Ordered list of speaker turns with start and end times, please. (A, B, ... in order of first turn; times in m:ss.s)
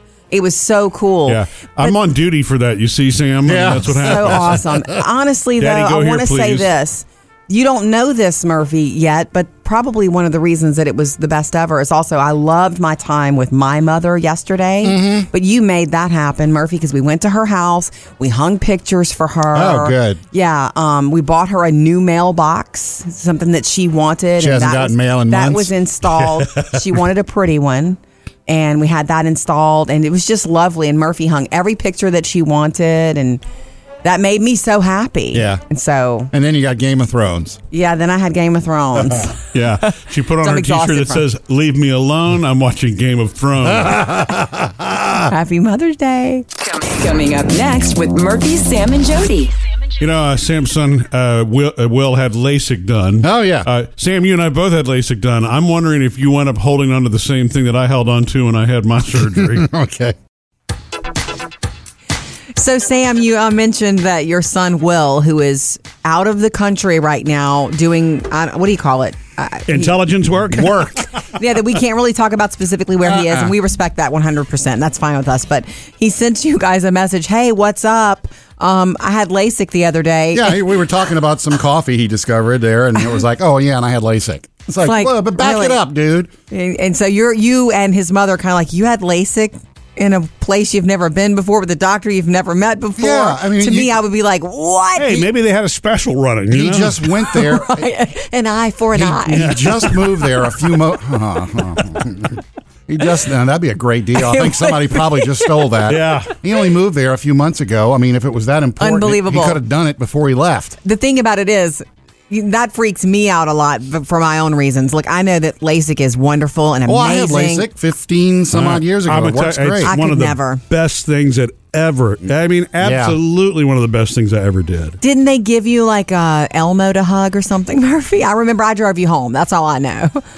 0:00.3-0:01.9 A
0:01.3-0:04.6 B
0:03.4-0:04.8 C
0:04.0-0:33.4 A
0:05.6-0:06.7 B
0:14.8-0:15.3 C
0:19.5-0:20.2 C
0:24.4-0:25.7 C
0:34.0-0:36.3 A
0:35.3-0:35.6 C
0:36.3-0:37.6 C
0:37.7-0:41.2 A
0:39.5-0:44.2 B
0:43.7-0:45.3 C
0:45.3-0:46.4 A
0:46.6-0:49.5 D
0:50.0-0:59.6 B
0:53.2-0:53.7 C
0:59.2-1:00.1 C
1:02.6-1:10.0 A
1:09.7-1:10.9 B
1:10.6-1:10.9 C
1:11.3-1:20.6 A
1:13.0-1:13.5 C
1:20.3-1:26.3 C
1:24.8-1:25.8 A
1:26.5-1:35.3 A
1:33.0-1:34.0 C
1:35.0-1:37.0 B
1:36.5-1:37.8 C
1:37.3-1:39.9 A
1:39.0-1:50.8 C
1:39.3-1:40.1 B
1:44.1-1:45.9 A
1:45.9-1:46.3 B
1:48.8-1:49.6 A
1:50.8-1:57.7 A
1:56.8-1:59.9 C
1:58.5-2:05.0 B
1:59.8-2:00.6 A
2:02.8-2:03.2 C
2:05.0-2:10.2 A